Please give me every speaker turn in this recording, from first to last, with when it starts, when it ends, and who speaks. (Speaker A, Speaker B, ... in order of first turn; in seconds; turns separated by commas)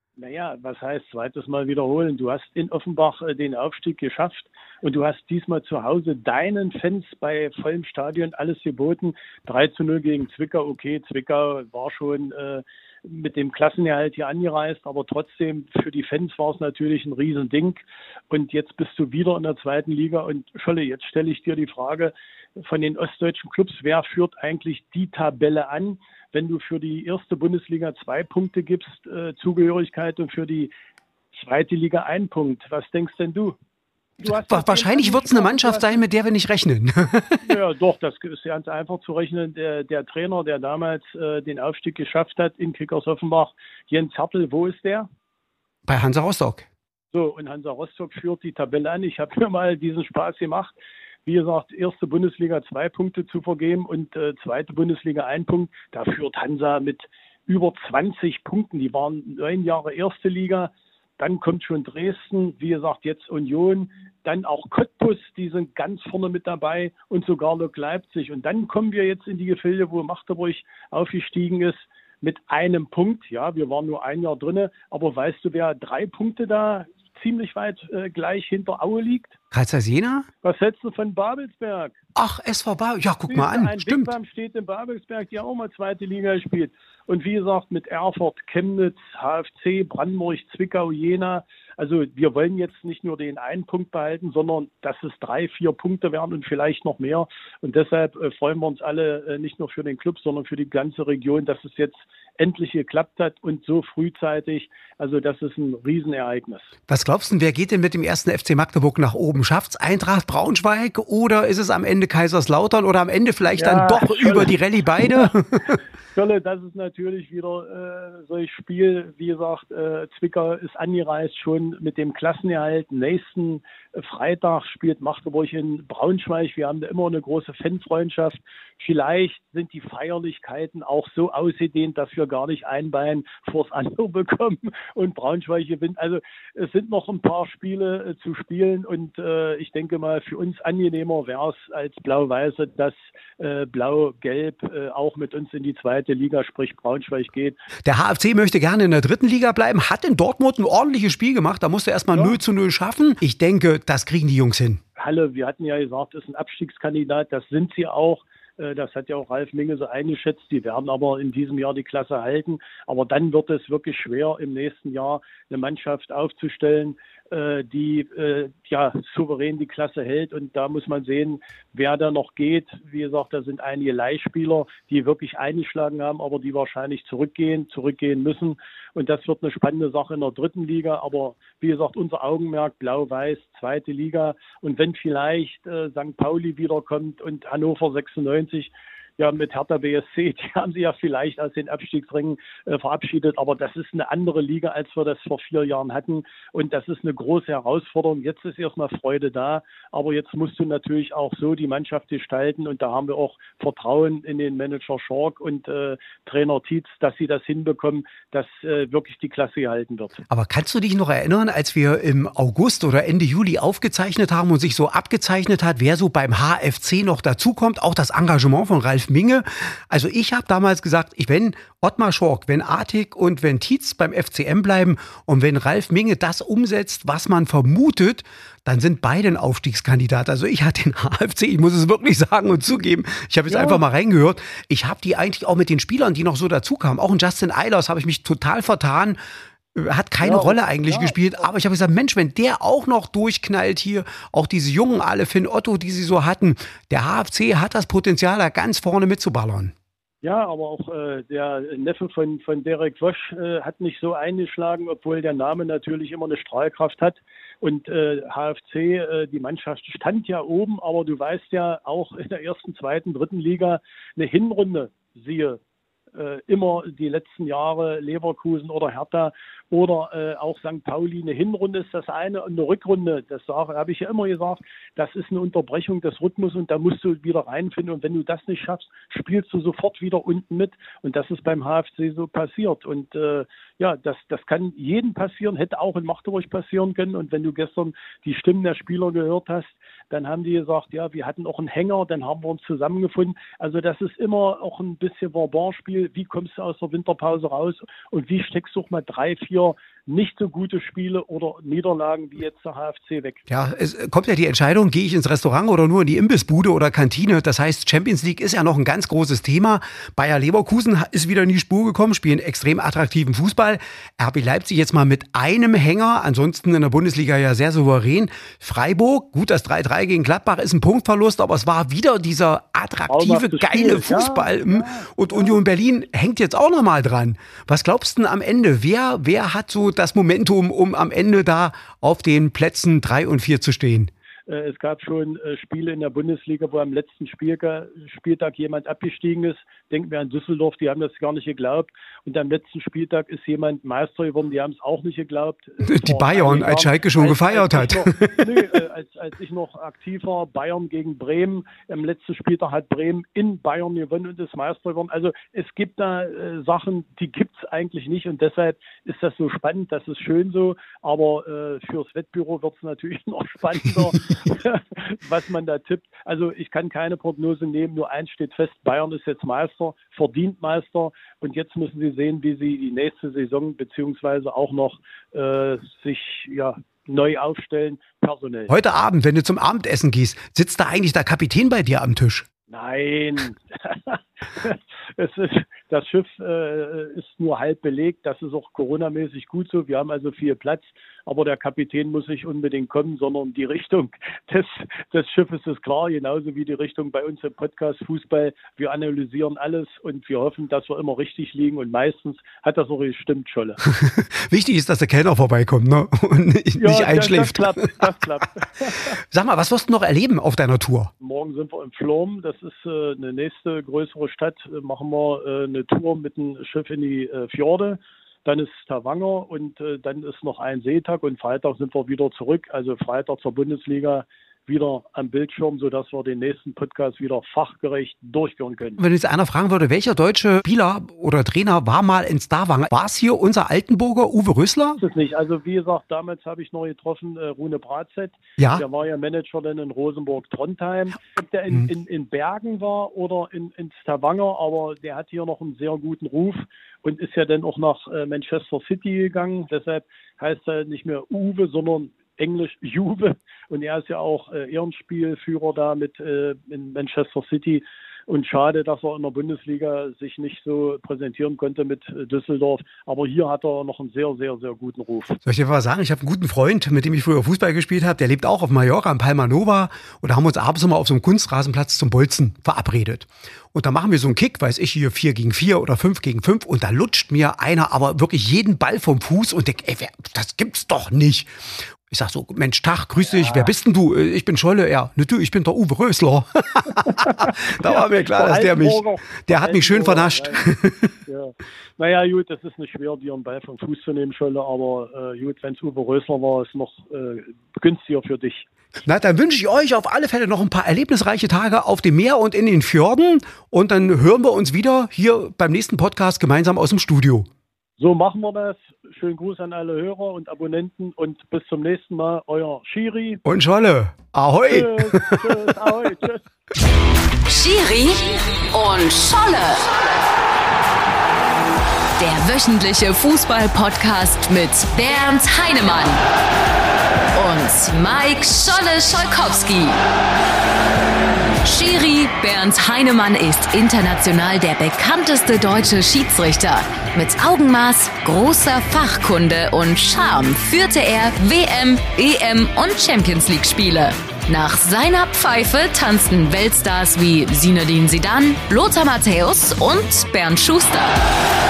Speaker A: 0.2-30.7, Speaker A: 31.3-33.6, Speaker A: 34.2-36.0, Speaker B: 34.2-37.6, Speaker A: 37.4-45.1, Speaker B: 45.9-46.7, Speaker A: 47.1-79.4, Speaker B: 79.5-80.3, Speaker A: 80.4-82.0, Speaker B: 82.2-84.1, Speaker A: 83.3-106.7, Speaker B: 106.9-115.8, Speaker A: 113.6-115.3, Speaker A: 116.1-147.6, Speaker B: 147.8-154.8, Speaker A: 155.0-210.2, Speaker B: 210.3-239.2, Speaker A: 233.5-233.8, Speaker B: 239.8-249.7, Speaker A: 240.2-241.2, Speaker A: 250.2-265.6, Speaker A: 266.1-303.5, Speaker B: 303.5-334.1, Speaker A: 323.1-325.6, Speaker A: 334.5-378.8, Speaker B: 345.8-348.6, Speaker B: 378.7-382.5, Speaker A: 382.7-403.8, Speaker B: 403.9-407.9, Speaker A: 406.8-409.2, Speaker B: 409.2-411.1, Speaker A: 411.2-429.0, Speaker B: 429.0-435.0, Speaker A: 435.0-465.4, Speaker B: 438.6-438.8, Speaker B: 465.4-481.5, Speaker B: 482.1-491.1, Speaker A: 483.2-483.7, Speaker A: 487.1-490.7, Speaker A: 491.2-498.7, Speaker B: 499.1-507.5, Speaker A: 508.0-513.4, Speaker B: 513.5-515.6, Speaker A: 514.7-516.4, Speaker C: 517.5-519.8, Speaker C: 522.2-526.2, Speaker C: 527.3-530.0, Speaker C: 531.6-551.1